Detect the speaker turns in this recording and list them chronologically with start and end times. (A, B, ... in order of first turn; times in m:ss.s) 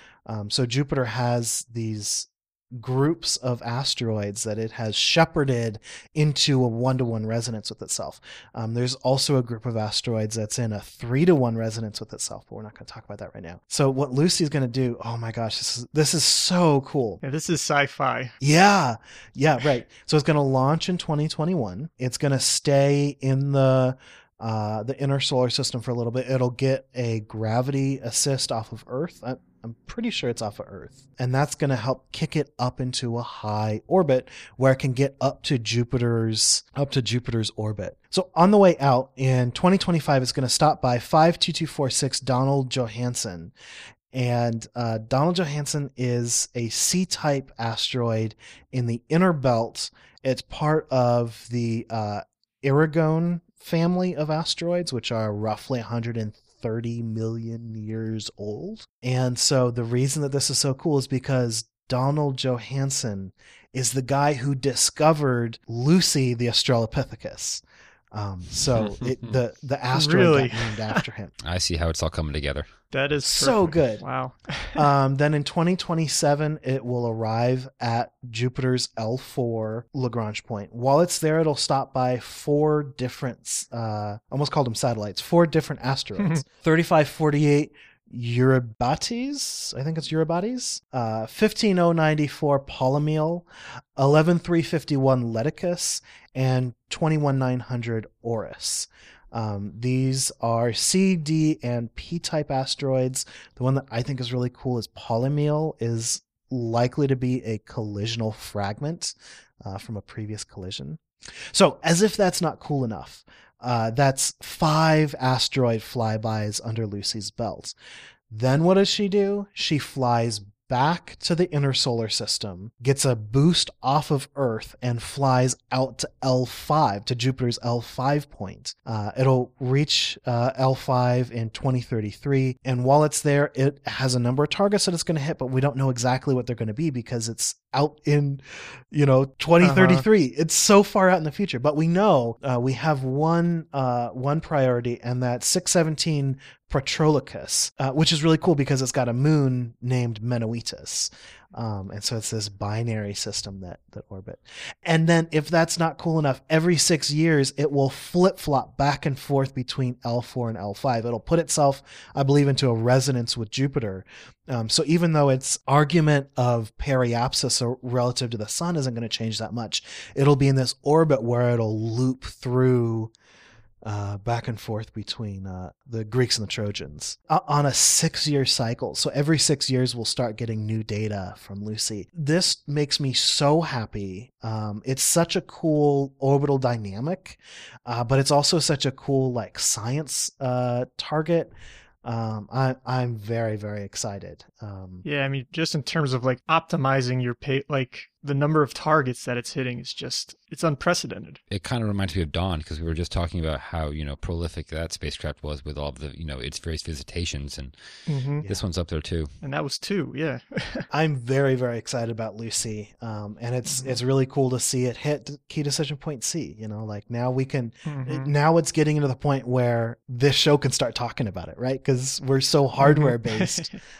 0:00.2-0:17.2 A
0:17.2-0:18.4 B
0:18.4-0:43.5 A
0:44.1-1:11.3 A
1:08.8-1:09.4 C
1:09.9-1:11.0 B
1:11.4-1:12.7 C
1:12.9-1:14.8 B
1:13.2-1:57.7 A
1:58.3-2:53.1 A
2:19.6-2:20.0 B
2:53.8-3:11.5 A
3:12.0-3:15.0 A
3:15.0-3:21.4 B
3:21.5-3:29.3 C
3:28.1-3:28.4 B
3:28.4-3:28.7 A
3:29.4-3:30.9 B
3:30.9-3:43.7 A
3:33.7-3:34.0 B
3:37.8-3:38.3 B
3:42.8-3:43.7 B